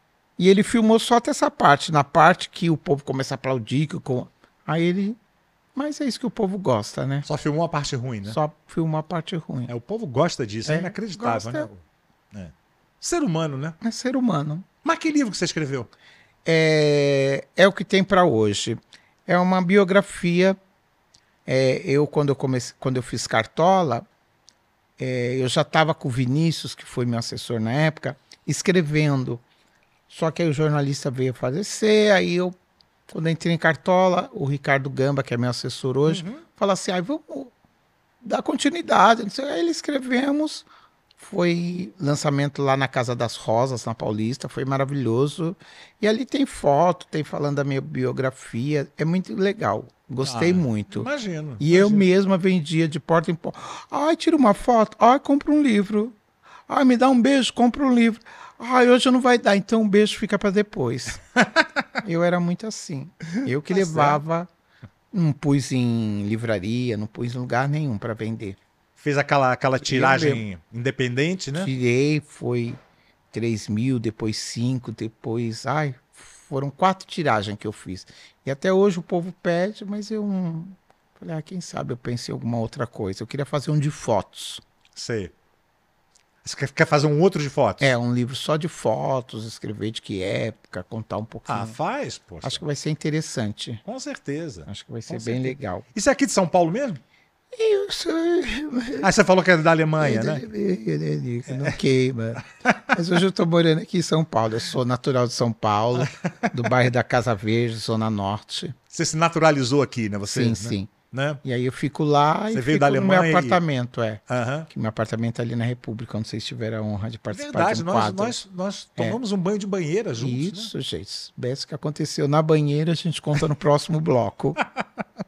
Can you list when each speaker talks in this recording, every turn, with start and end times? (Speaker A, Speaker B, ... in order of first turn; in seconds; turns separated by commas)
Speaker A: 0.4-5.2, Speaker A: 5.7-7.3, Speaker B: 7.2-8.4, Speaker A: 8.3-9.7, Speaker B: 9.7-11.8, Speaker A: 10.7-11.7, Speaker B: 12.3-13.8, Speaker A: 13.8-14.7, Speaker B: 14.8-15.9, Speaker A: 16.4-20.6, Speaker A: 21.4-24.1, Speaker A: 25.0-29.4, Speaker A: 30.1-32.5, Speaker A: 33.1-37.5, Speaker B: 36.1-36.4, Speaker A: 38.2-40.6, Speaker A: 41.2-56.2, Speaker B: 50.2-52.1, Speaker A: 56.7-61.2, Speaker B: 61.3-61.8, Speaker A: 62.0-64.5, Speaker B: 63.7-64.2, Speaker A: 65.1-68.6, Speaker B: 69.0-71.7, Speaker A: 69.8-70.4, Speaker A: 71.6-72.8, Speaker A: 73.3-84.6, Speaker B: 84.9-85.3, Speaker B: 86.4-87.9, Speaker A: 87.8-91.8, Speaker B: 91.5-92.6, Speaker A: 92.4-93.8, Speaker B: 93.8-97.0, Speaker A: 94.7-95.8, Speaker A: 97.5-99.1, Speaker B: 99.0-100.4, Speaker A: 100.0-108.8, Speaker B: 101.5-101.8, Speaker B: 102.4-103.0, Speaker B: 106.0-106.7, Speaker B: 108.9-111.4, Speaker A: 110.3-110.9, Speaker A: 111.4-118.4, Speaker B: 112.5-113.6, Speaker B: 114.3-114.7, Speaker B: 117.3-120.7, Speaker A: 120.2-124.6, Speaker B: 124.6-125.0